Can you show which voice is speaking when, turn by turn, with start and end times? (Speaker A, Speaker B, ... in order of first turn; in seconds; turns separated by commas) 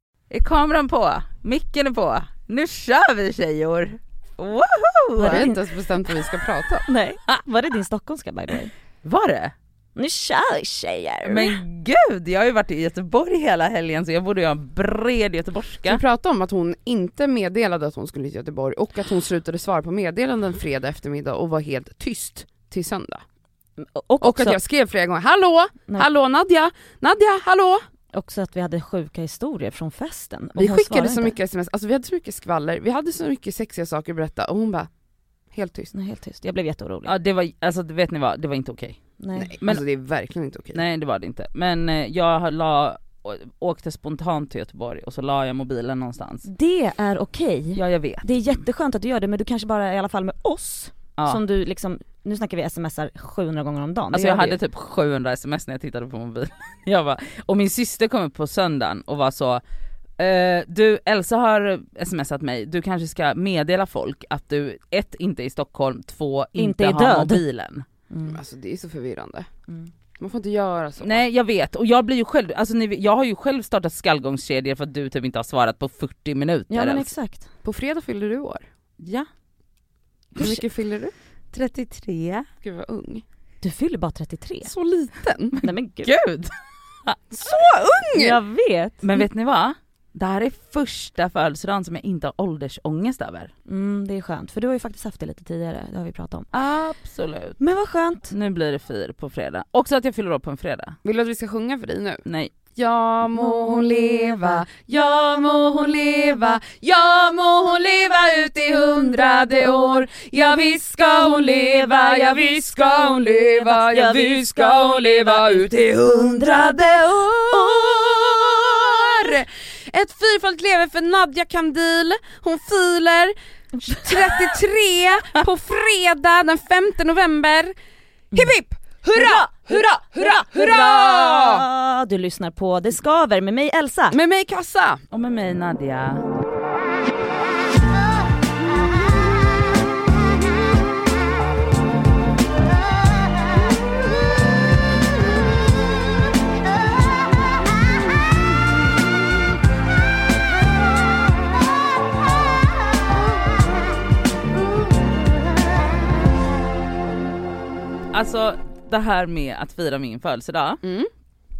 Speaker A: 0.3-5.5, Speaker B: 5.2-5.6, Speaker C: 5.2-6.8, Speaker B: 6.9-8.7, Speaker A: 9.0-9.5, Speaker B: 10.0-11.6, Speaker A: 11.3-16.0, Speaker C: 15.8-23.2, Speaker B: 23.8-24.6, Speaker C: 24.2-27.8, Speaker B: 28.1-31.4, Speaker C: 30.6-34.9, Speaker C: 35.5-35.9, Speaker B: 35.9-37.1, Speaker A: 37.0-39.0, Speaker B: 39.2-39.5, Speaker C: 39.4-40.8, Speaker A: 40.7-46.5, Speaker B: 46.5-54.6, Speaker A: 47.8-48.3, Speaker A: 54.1-59.6, Speaker A: 60.2-67.9, Speaker B: 66.6-67.4, Speaker B: 68.1-68.4, Speaker C: 68.3-69.5, Speaker C: 70.2-71.2, Speaker A: 71.0-77.1, Speaker B: 76.7-77.5, Speaker C: 77.6-78.7, Speaker A: 79.0-79.3, Speaker C: 80.4-81.1, Speaker A: 81.5-82.5, Speaker C: 82.6-83.2, Speaker B: 83.6-84.7, Speaker C: 84.7-85.6, Speaker A: 85.6-86.5, Speaker B: 85.6-86.1, Speaker C: 87.3-88.4, Speaker B: 88.1-89.1, Speaker A: 89.0-93.5, Speaker B: 93.7-96.5, Speaker A: 96.5-97.6, Speaker B: 97.6-98.3, Speaker A: 98.3-101.0, Speaker C: 101.0-102.2, Speaker A: 102.3-102.5, Speaker C: 102.8-127.7, Speaker B: 111.7-112.2, Speaker B: 113.3-116.8, Speaker C: 128.3-131.7, Speaker B: 129.2-134.2, Speaker C: 134.1-135.0, Speaker A: 135.1-136.2, Speaker A: 158.1-160.8, Speaker C: 160.8-161.1